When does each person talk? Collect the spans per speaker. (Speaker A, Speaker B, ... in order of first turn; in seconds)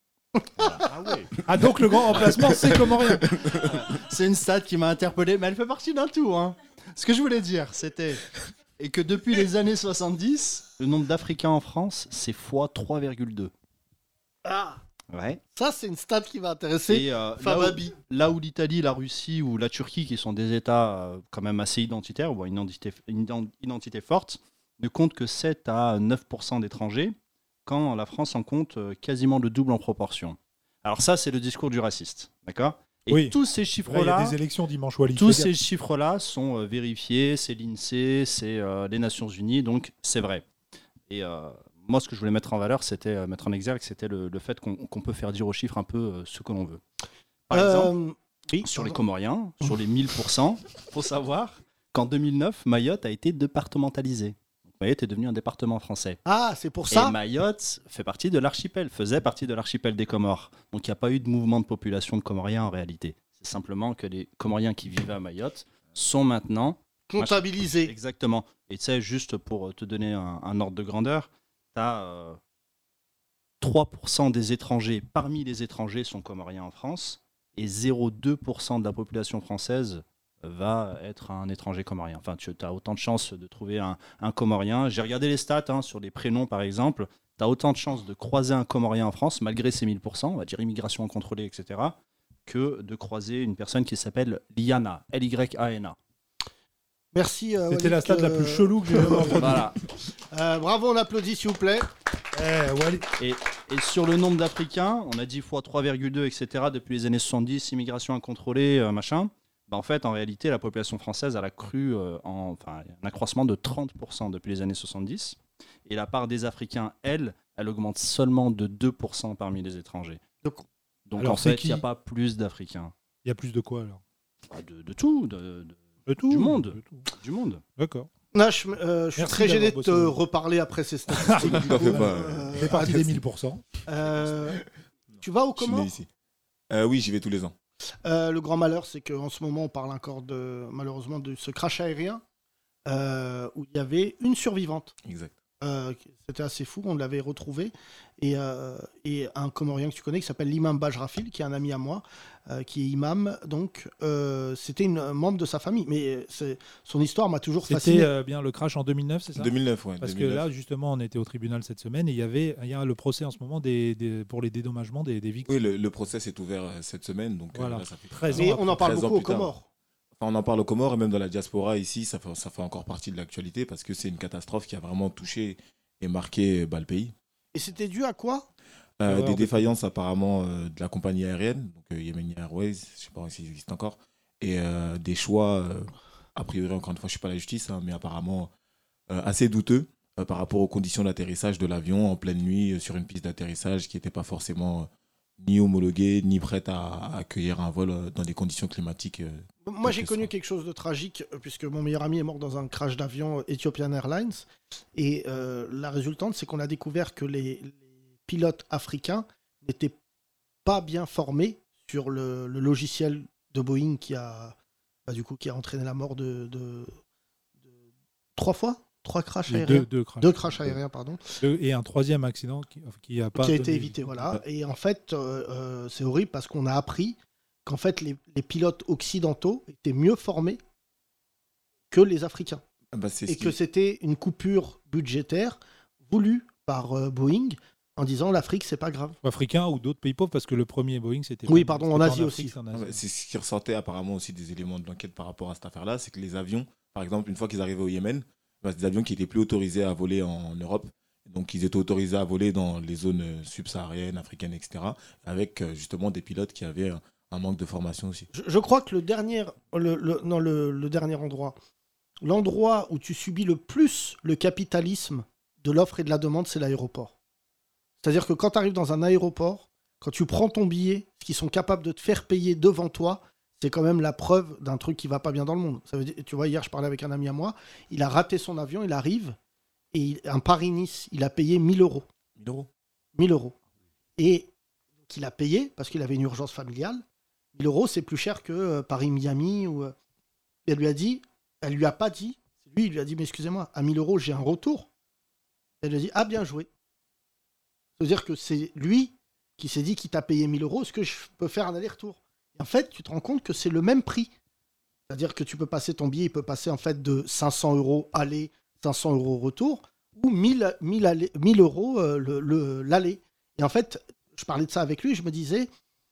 Speaker A: 0.8-1.3, 3.5-8.2, 8.8-13.5, 15.1-15.4, 16.9-34.4, 35.1-40.4, 41.1-46.8, 47.5-47.9, 48.6-56.2, 56.9-72.4, 73.6-91.9, 92.5-96.0, 99.4-99.8, 103.2-120.2, 121.0-122.9, 124.5-127.6
Speaker B: 1.4-3.3, 33.1-35.5, 97.7-99.7, 102.3-103.1, 121.2-121.8, 123.2-124.0, 126.1-127.0, 127.8-128.1, 129.2-130.2, 131.1-133.6, 157.7-165.6, 167.5-168.9, 179.1-179.7, 219.5-220.8, 221.4-224.4, 239.2-243.0
Speaker C: 14.4-14.8, 15.5-17.9, 47.5-49.0, 56.2-57.2, 67.1-67.9, 97.1-99.5, 100.3-101.9, 128.3-133.1, 133.8-134.6, 135.2-135.9, 138.0-142.2, 142.8-144.9, 145.6-158.1, 168.3-169.6, 177.5-178.5, 199.6-204.4, 204.9-209.9, 210.6-214.5, 215.1-216.9, 218.3-221.2, 223.3-230.6, 231.9-232.6, 233.3-239.2, 241.5-242.5, 258.3-261.6, 262.2-267.1, 268.0-279.4, 279.9-282.1, 283.1-283.5, 284.2-284.5, 285.1-287.0, 287.5-289.9, 290.6-294.9, 295.8-296.7, 298.0-304.3, 305.1-315.7
Speaker D: 131.4-132.6, 135.6-136.1, 136.7-137.5, 145.0-145.3, 159.3-160.5, 165.4-169.5, 170.2-177.1, 179.0-188.5, 189.1-194.9, 195.4-200.3, 232.9-233.6, 242.7-258.3